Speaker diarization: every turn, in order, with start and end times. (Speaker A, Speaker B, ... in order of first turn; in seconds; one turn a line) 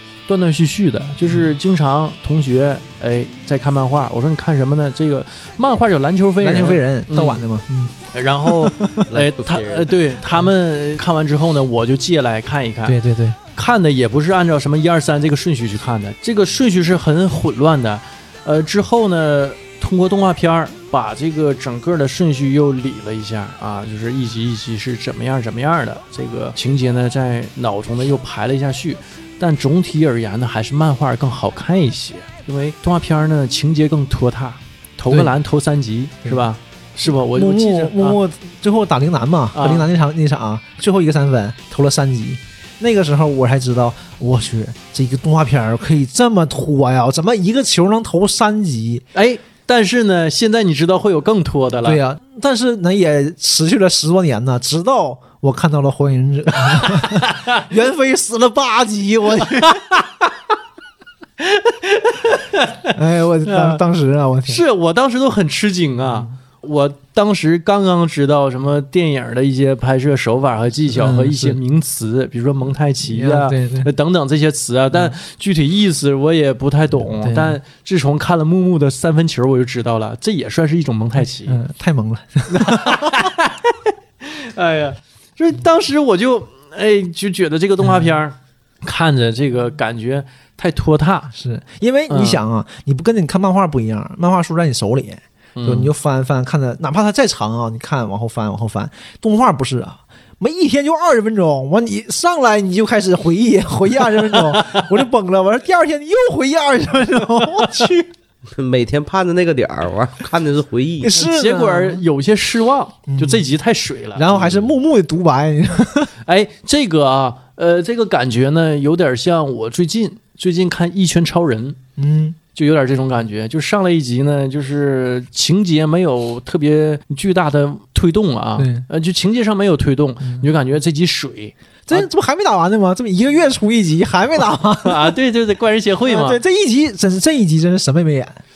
Speaker A: 0.3-7.5
Speaker B: 6.4-7.9
Speaker A: 8.1-13.0
Speaker B: 8.4-9.1
Speaker C: 9.1-9.9
Speaker B: 12.8-13.4
Speaker A: 13.5-38.2
Speaker B: 37.0-49.0
Speaker A: 39.5-39.9
Speaker A: 49.1-52.0
Speaker B: 51.8-59.8
Speaker A: 56.9-57.6
Speaker A: 61.4-63.8
Speaker B: 62.9-64.6
Speaker A: 64.5-81.6
Speaker B: 66.0-66.3
Speaker B: 70.9-71.6
Speaker B: 73.0-73.9
Speaker B: 77.0-77.6
Speaker B: 81.5-83.3
Speaker A: 82.5-91.3
Speaker B: 87.8-88.2
Speaker B: 91.3-108.1
Speaker A: 92.1-92.4
Speaker A: 95.5-95.9
Speaker A: 104.3-104.9
Speaker C: 108.5-111.1
Speaker B: 111.0-112.0
Speaker A: 111.1-114.3
Speaker B: 113.1-113.4
Speaker B: 114.1-116.1
Speaker A: 116.2-121.8
Speaker B: 122.0-122.4
Speaker A: 122.5-132.1
Speaker B: 128.6-128.9
Speaker B: 130.2-130.5
Speaker B: 131.9-135.1
Speaker A: 134.8-136.4
Speaker B: 136.0-138.4